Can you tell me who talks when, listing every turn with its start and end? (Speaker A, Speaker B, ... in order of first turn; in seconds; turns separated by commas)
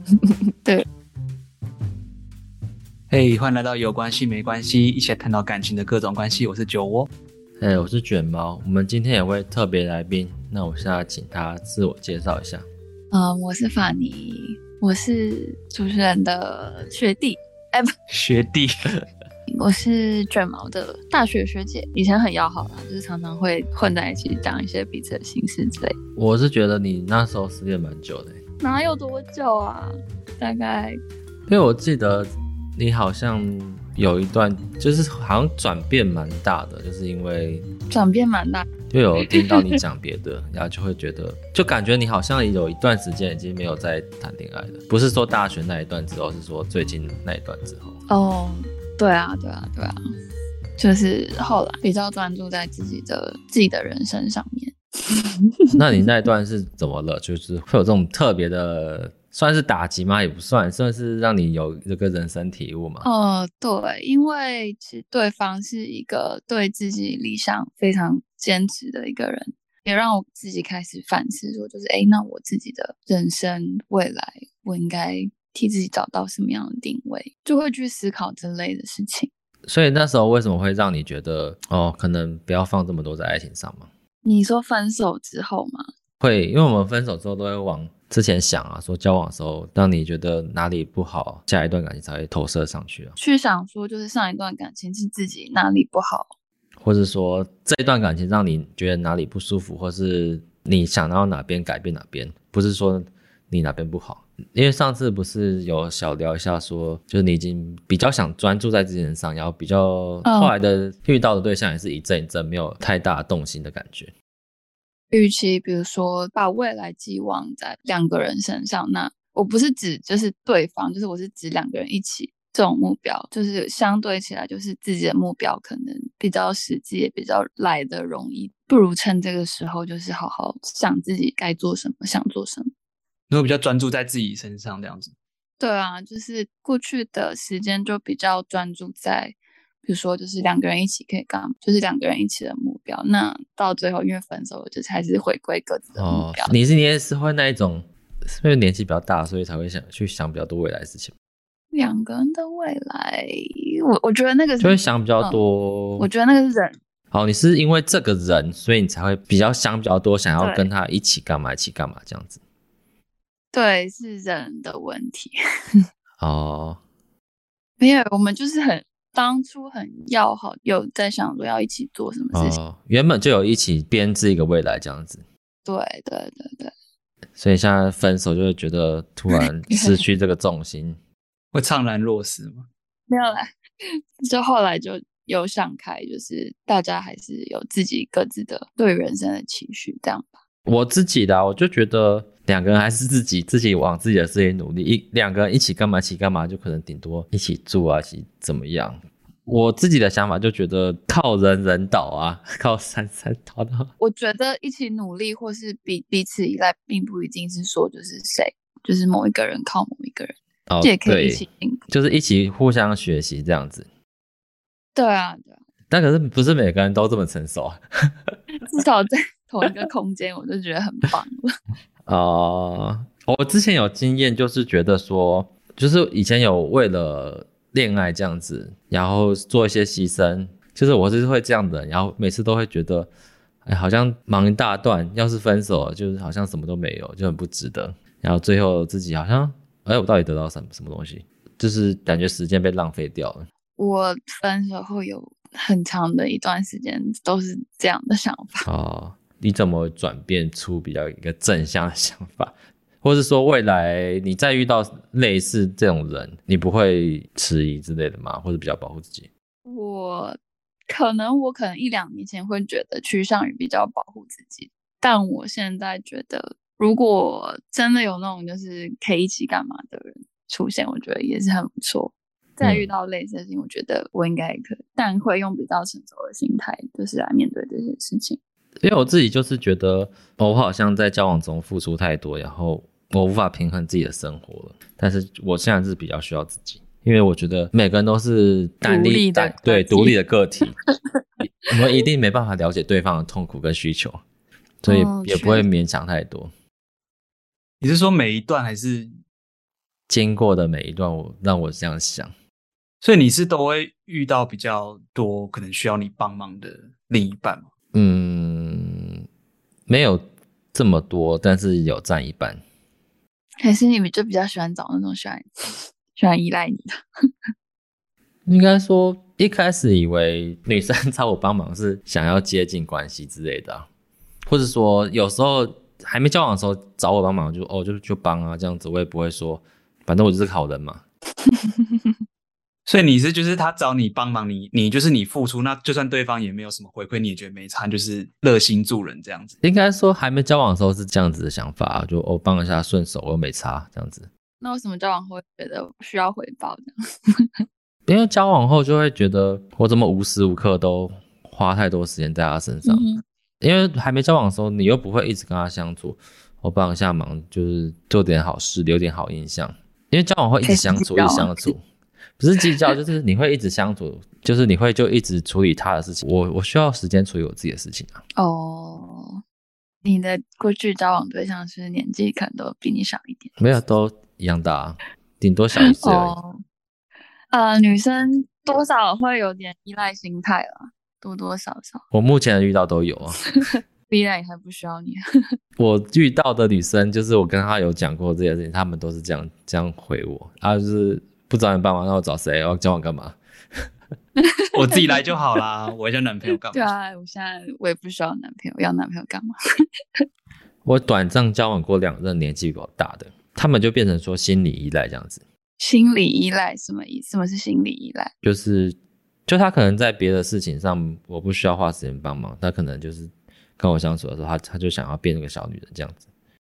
Speaker A: 3.1-7.1, Speaker B: 7.6-12.7, Speaker C: 13.1-17.9, Speaker A: 18.1-18.8, Speaker C: 19.5-26.0, Speaker B: 26.2-28.4, Speaker C: 28.6-31.0, Speaker B: 31.5-37.7, Speaker C: 37.9-38.7, Speaker B: 38.9-48.0, Speaker C: 39.4-39.8, Speaker C: 48.1-50.0, Speaker C: 50.8-55.7, Speaker B: 55.7-63.1, Speaker C: 63.0-79.3, Speaker B: 79.7-83.9, Speaker C: 84.2-85.9, Speaker B: 86.2-93.2, Speaker C: 93.2-96.3, Speaker B: 96.8-114.1, Speaker C: 110.2-110.5, Speaker C: 115.1-132.7, Speaker A: 133.3-135.1, Speaker C: 135.6-146.6, Speaker B: 146.0-151.1, Speaker C: 151.7-155.4, Speaker B: 154.6-156.1, Speaker C: 156.0-156.7, Speaker B: 157.1-162.4, Speaker C: 160.4-160.7, Speaker C: 163.5-165.3, Speaker B: 166.2-166.8, Speaker C: 167.8-172.6, Speaker B: 172.3-175.2, Speaker C: 175.7-176.7, Speaker B: 177.4-181.0, Speaker C: 179.4-180.0, Speaker A: 181.5-182.7, Speaker C: 183.1-183.5, Speaker C: 184.2-190.3, Speaker B: 190.7-203.9, Speaker C: 204.0-211.8, Speaker B: 210.7-213.9, Speaker C: 215.0-215.6, Speaker B: 215.9-218.1, Speaker C: 218.6-221.5, Speaker B: 222.1-233.1, Speaker B: 233.7-243.5, Speaker C: 243.8-248.7, Speaker B: 248.7-259.3, Speaker C: 259.7-260.4, Speaker C: 260.9-278.4, Speaker B: 272.6-272.9, Speaker B: 278.8-290.8, Speaker C: 288.9-290.1, Speaker B: 291.7-294.2, Speaker B: 294.8-296.5, Speaker C: 294.9-295.7, Speaker A: 297.8-299.1, Speaker B: 300.1-302.3, Speaker A: 303.0-307.7, Speaker B: 307.9-309.2, Speaker B: 309.9-312.6, Speaker C: 313.6-317.0, Speaker B: 318.5-323.9, Speaker B: 324.5-331.0, Speaker C: 331.4-332.1, Speaker A: 332.9-339.6, Speaker B: 339.6-344.3, Speaker C: 344.6-347.5, Speaker B: 348.1-353.0, Speaker C: 352.9-353.2, Speaker B: 353.6-361.8, Speaker C: 360.6-361.7, Speaker B: 362.4-368.2, Speaker C: 368.4-369.4, Speaker C: 370.0-373.6, Speaker B: 373.6-376.4, Speaker C: 376.0-376.6, Speaker C: 377.5-382.0, Speaker B: 382.1-383.5, Speaker C: 383.6-385.2, Speaker B: 385.8-393.4, Speaker C: 394.4-395.2, Speaker A: 394.7-396.9, Speaker C: 396.7-399.5, Speaker B: 400.9-405.4, Speaker C: 405.8-408.3, Speaker B: 408.4-416.2